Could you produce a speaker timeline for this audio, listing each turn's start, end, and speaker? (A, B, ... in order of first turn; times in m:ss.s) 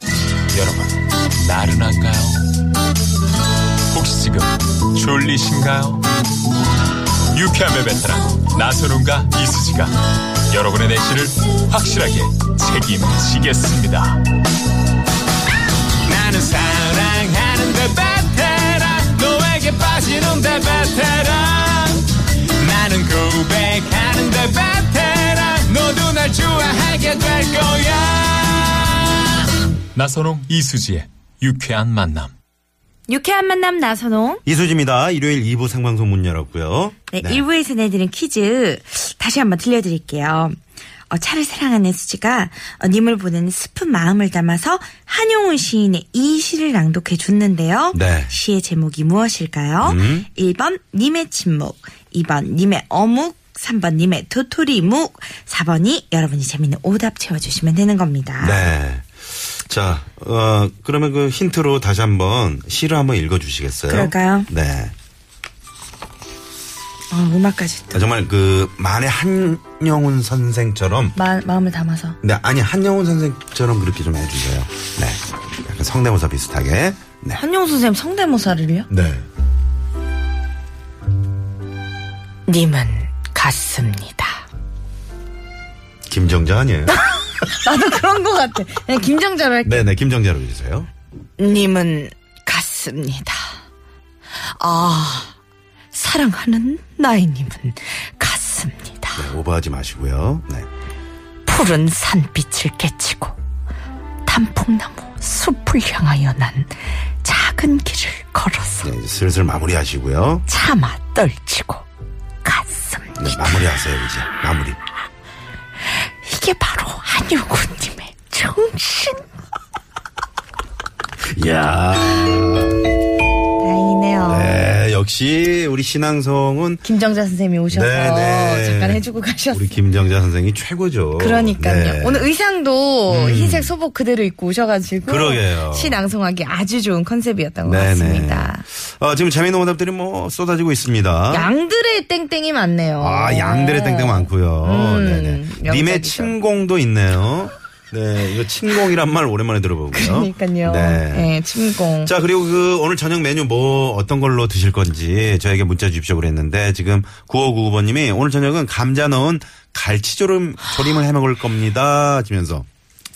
0:00.5-0:02.4 A
0:03.9-0:06.0 A
0:07.3-0:14.2 A
0:16.0-0:29.4 A
0:29.9-0:32.3 A
0:33.1-0:34.4 B
0:34.4-0:37.4 C
0:37.1-0:40.6 B
0:41.1-0:58.6 B
0:47.9-0:48.3 C
0:49.8-0:50.3 C
0:58.4-1:04.9 C
1:03.9-1:04.5 B
1:07.1-1:08.0 B
1:07.9-1:11.2 C
1:11.1-1:12.2 B
1:12.2-1:17.4 C
1:17.3-1:18.9 B
1:18.9-1:19.2 C
1:22.5-1:24.4 B
1:26.1-1:27.0 C
1:26.9-1:29.9 B
1:29.6-1:30.9 C
1:31.4-1:33.5 B
1:34.6-1:35.3 B
1:35.9-1:39.2 B
1:39.2-1:40.7 C
1:41.4-1:43.4 B
1:44.2-1:48.9 B
1:48.8-1:50.4 C
1:50.5-1:51.8 B
1:52.4-1:53.7 B
1:53.2-1:54.8 C
1:56.0-1:59.2 B
2:01.3-2:02.8 C
2:03.6-2:04.6 B
2:04.2-2:06.8 C
2:06.8-2:09.8 B
2:07.7-2:12.3 C
2:11.2-2:18.6 B
2:13.1-2:13.7 C
2:15.0-2:16.0 C
2:17.6-2:21.5 C
2:21.3-2:26.4 B
2:23.0-2:31.4 C
2:29.9-2:32.1 B
2:32.0-2:42.6 C